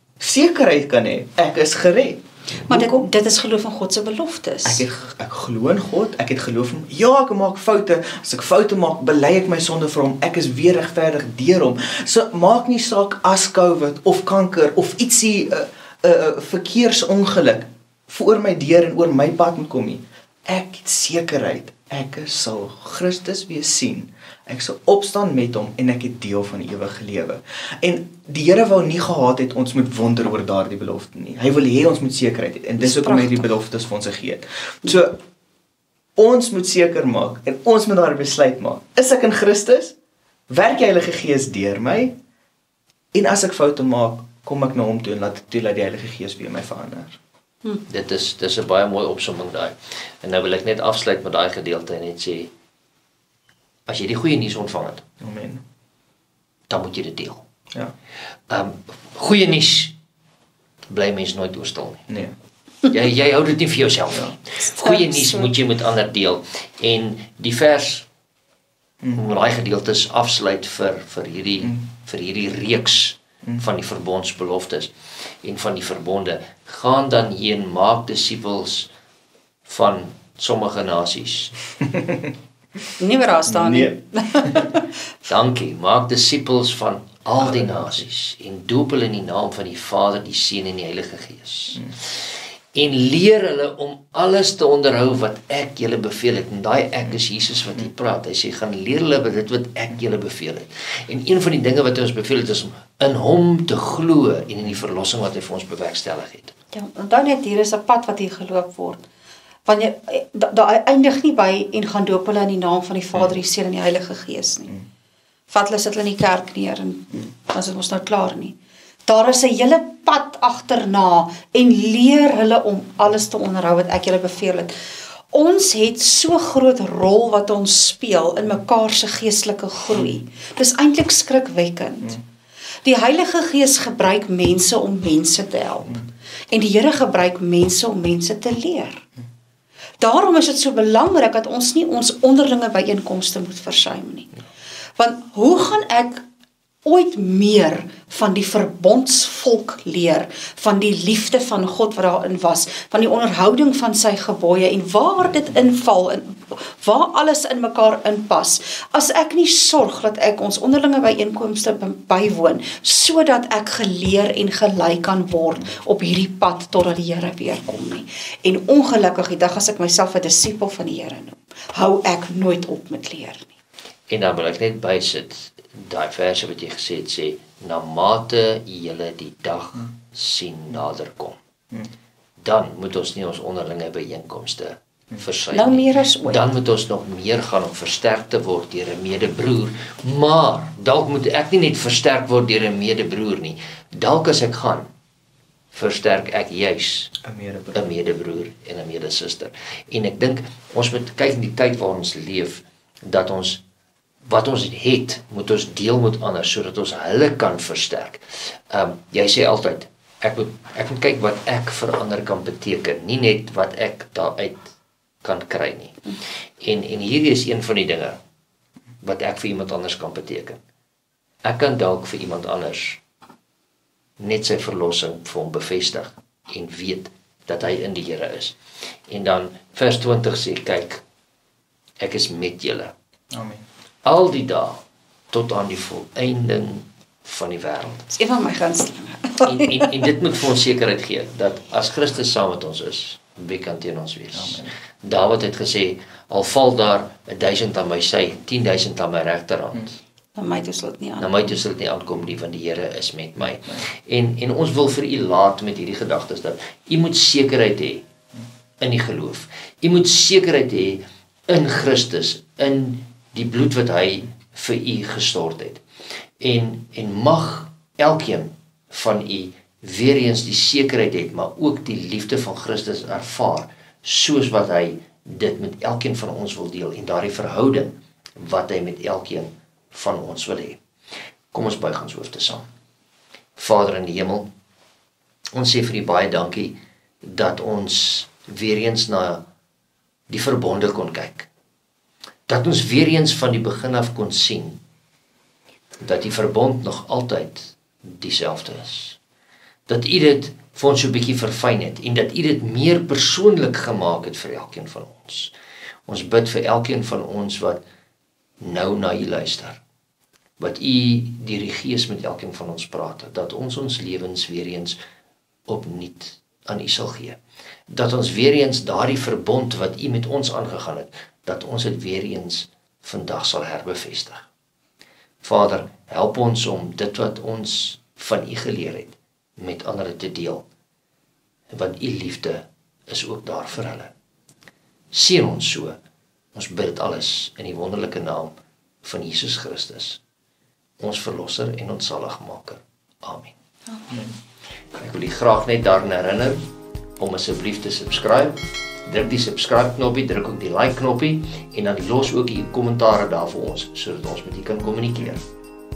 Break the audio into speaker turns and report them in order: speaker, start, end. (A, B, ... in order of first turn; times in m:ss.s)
0:00.2-0:03.0 A
0:02.7-0:04.8 B
0:04.6-0:35.2 A
0:32.8-0:33.4 B
0:36.2-0:39.9 A
0:40.5-0:42.2 A
0:43.1-0:47.2 A
0:47.9-0:52.5 C
0:53.9-0:55.0 C
0:55.2-0:55.6 A
0:56.7-0:57.4 C
0:58.5-0:59.9 C
1:00.9-1:02.1 C
1:02.9-1:08.1 C
1:04.8-1:05.5 B
1:09.1-1:14.9 C
1:15.4-1:18.9 C
1:19.6-1:21.5 C
1:21.8-1:22.3 A
1:23.0-1:24.9 B
1:23.5-1:24.7 A
1:25.3-1:31.9 C
1:27.4-1:28.0 A
1:32.7-1:46.5 C
1:46.7-1:49.0 B
1:49.6-1:54.8 B
1:55.5-1:58.5 B
1:59.0-2:04.7 B
2:05.3-2:12.2 B
2:12.8-2:19.0 B
2:20.0-2:24.3 B
2:25.0-2:26.2 B
2:26.8-2:53.5 B
2:54.1-3:01.4 C
3:02.4-3:14.9 C
3:05.5-3:06.4 B
3:15.7-3:17.1 C
3:17.2-3:17.8 A
3:17.7-3:23.6 C
3:24.3-3:34.7 C
3:35.2-3:36.0 C
3:36.6-3:38.2 C
3:39.0-3:40.6 C
3:41.4-3:43.0 C
3:44.2-3:48.5 C
3:49.1-3:51.0 C
3:52.0-3:52.9 C
3:53.3-3:53.6 A
3:54.0-3:58.0 C
3:58.1-4:00.1 B
3:59.4-4:10.0 C
4:04.3-4:04.7 A
4:10.3-4:11.6 B
4:11.2-4:18.0 C
4:18.8-4:25.8 C
4:26.4-4:40.8 C
4:41.5-4:42.7 C
4:43.6-4:44.5 C
4:45.5-4:49.4 C
4:50.3-4:51.5 C
4:52.5-4:54.8 C
4:56.0-4:59.2 C
4:59.9-5:05.5 C
5:06.1-5:07.8 C
5:08.6-5:09.8 C
5:10.6-5:15.0 C
5:15.7-5:24.5 C
5:25.4-5:30.6 C
5:31.7-5:34.1 C
5:35.1-5:36.0 C
5:36.5-5:40.2 C
5:41.0-5:43.5 C
5:45.0-5:46.6 C
5:47.2-5:55.4 C